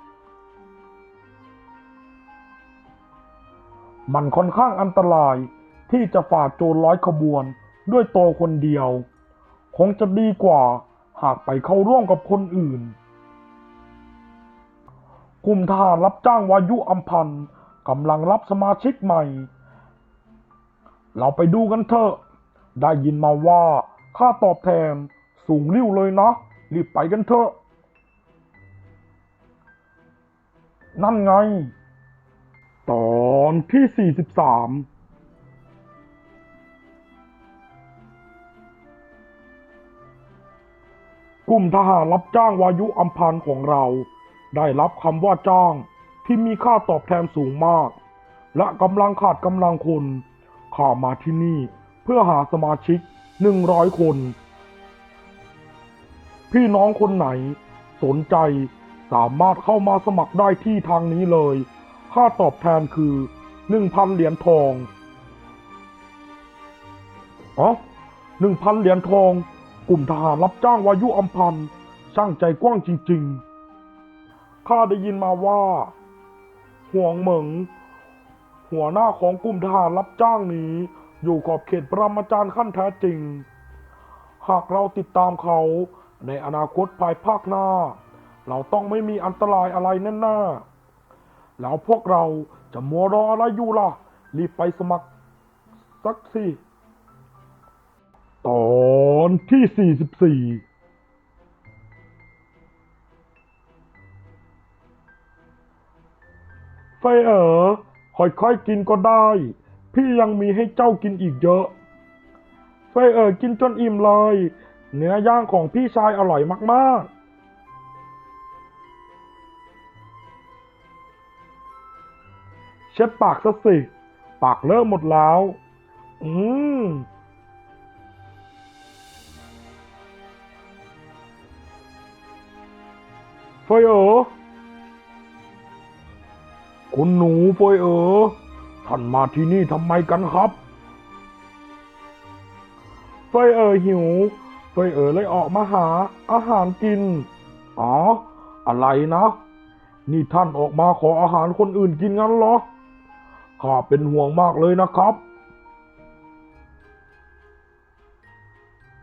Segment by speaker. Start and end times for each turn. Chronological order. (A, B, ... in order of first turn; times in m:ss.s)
0:04.1-0:09.1 A
0:09.7-0:13.0 A
0:15.4-0:19.5 A
0:21.2-0:22.2 A
0:22.8-0:27.5 A
0:31.0-0:31.7 A
0:32.9-0:34.9 A
0:41.5-0:48.0 A
0:48.5-0:54.4 A
0:56.5-1:04.9 A
1:08.4-1:13.4 A
1:14.6-1:15.9 A
1:16.9-1:17.7 A
1:18.7-1:23.5 A
1:24.4-1:30.6 A
1:31.6-1:35.1 A
1:36.0-1:36.6 A
1:38.4-1:40.6 A
1:47.0-1:51.7 A
1:52.9-1:57.1 A
2:02.9-2:05.6 A
2:06.2-2:07.1 A
2:13.7-2:14.3 A
2:16.9-2:20.6 A
2:23.3-2:29.4 A
2:30.1-2:32.6 A
2:33.6-2:35.2 A